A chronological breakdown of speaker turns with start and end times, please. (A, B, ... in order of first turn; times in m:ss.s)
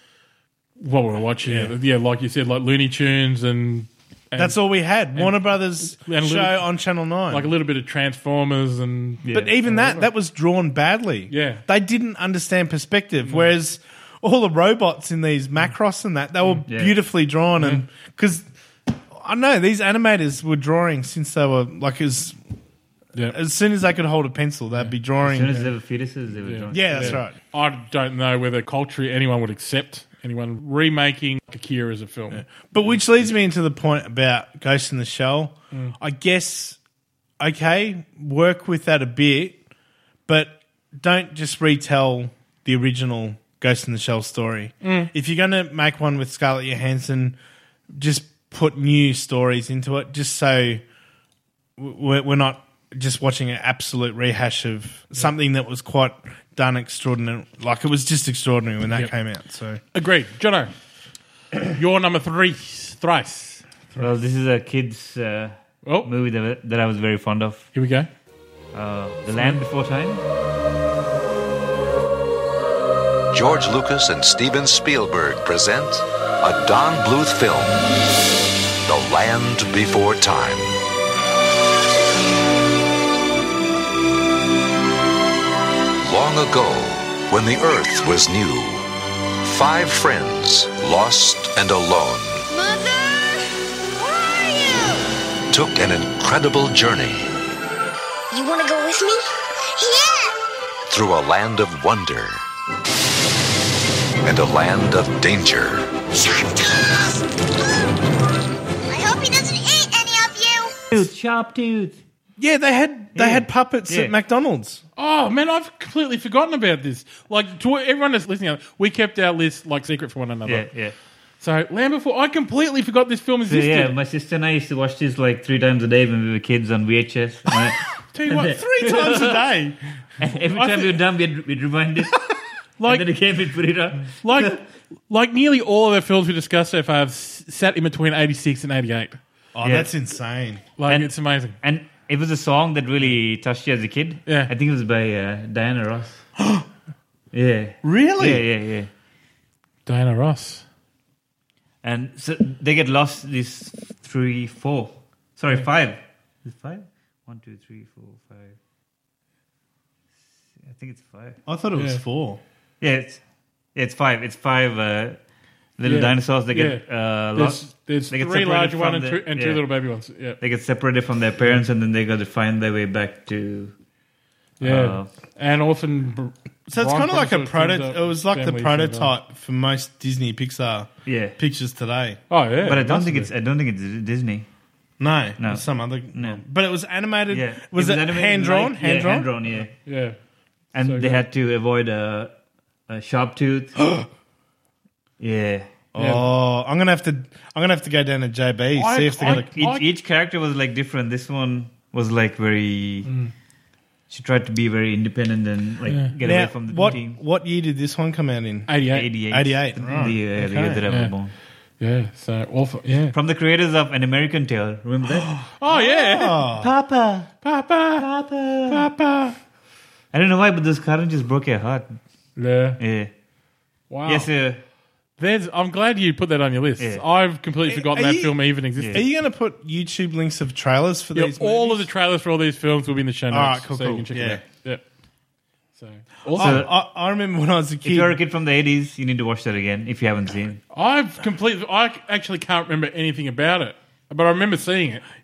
0:00.8-0:06.7 A
0:01.4-0:01.7 B
0:04.4-0:07.5 B
0:07.3-0:10.1 A
0:09.2-0:09.5 C
0:09.3-0:18.4 B
0:11.3-0:11.6 A
0:13.2-0:13.5 A
0:16.7-0:16.9 C
0:19.1-0:22.4 B
0:23.3-0:25.6 B
0:25.2-0:27.2 C
0:26.4-0:33.0 A
0:26.7-0:27.3 B
0:32.3-0:36.8 B
0:37.4-0:39.6 B
0:40.3-0:47.4 B
0:44.8-0:45.1 A
0:47.9-0:50.8 B
0:51.8-0:59.8 B
0:59.9-1:00.7 A
1:01.7-1:04.1 A
1:04.0-1:07.7 C
1:05.8-1:06.1 A
1:07.7-1:08.1 A
1:08.7-1:10.2 C
1:09.3-1:09.6 A
1:13.3-1:17.8 D
1:18.8-1:20.8 D
1:26.0-1:28.9 D
1:29.4-1:32.4 D
1:34.0-1:35.0 E
1:35.5-1:37.3 D
1:38.3-1:40.4 E
1:40.9-1:42.4 D
1:44.2-1:45.9 D
1:46.1-1:47.8 E
1:48.9-1:50.8 E
1:50.9-1:52.0 C
1:52.4-1:54.8 B
1:53.1-1:54.1 C
1:55.0-2:00.7 A
2:00.4-2:00.9 C
2:01.4-2:03.9 A
2:03.5-2:09.4 C
2:08.1-2:09.1 A
2:08.3-2:09.8 B
2:10.2-2:12.3 C
2:10.5-2:10.9 A
2:12.8-2:14.6 C
2:14.2-2:19.2 A
2:19.5-2:20.6 B
2:19.6-2:19.9 C
2:20.8-2:21.6 A
2:20.9-2:26.2 C
2:27.3-2:28.9 C
2:27.8-2:28.4 B
2:29.8-2:30.6 A
2:31.8-2:38.6 C
2:40.6-2:41.4 C
2:41.4-2:42.4 B
2:41.8-2:42.0 A
2:42.8-2:43.2 C
2:43.7-2:45.2 C
2:45.8-2:49.6 C
2:45.8-2:50.4 A
2:50.4-2:53.7 C
2:54.6-2:55.1 C
2:54.6-2:59.1 A
2:56.7-3:02.2 B
3:01.0-3:01.4 C
3:02.3-3:03.3 A
3:02.6-3:04.5 C
3:05.0-3:09.3 B
3:05.4-3:06.4 C
3:07.3-3:09.7 C
3:09.8-3:10.2 A
3:10.7-3:12.3 C
3:10.8-3:11.2 A
3:12.9-3:13.8 C
3:15.2-3:15.7 C
3:15.9-3:19.5 B
3:16.0-3:16.3 A
3:18.7-3:19.8 A
3:19.2-3:23.1 C
3:23.0-3:23.3 A
3:24.1-3:27.2 C
3:26.2-3:28.8 B
3:28.7-3:29.1 A
3:28.9-3:31.3 C
3:29.3-3:30.8 B
3:30.9-3:31.1 A
3:31.8-3:33.1 A
3:33.1-3:35.3 C
3:35.0-3:36.7 B
3:35.6-3:36.4 A
3:36.6-3:37.3 C
3:37.4-3:38.0 A
3:38.0-3:38.8 C
3:38.7-3:39.4 B
3:40.1-3:42.0 C
3:42.4-3:42.8 A
3:42.8-3:43.1 C
3:43.9-3:44.3 A
3:44.0-3:44.6 C
3:45.2-3:49.1 A
3:47.6-3:48.4 B
3:48.9-3:51.9 B
3:51.1-3:54.8 A
3:53.3-3:54.4 B
3:55.8-3:56.6 A
3:56.3-3:58.2 B
3:56.4-3:56.7 C
3:57.8-4:00.6 C
4:00.7-4:05.0 A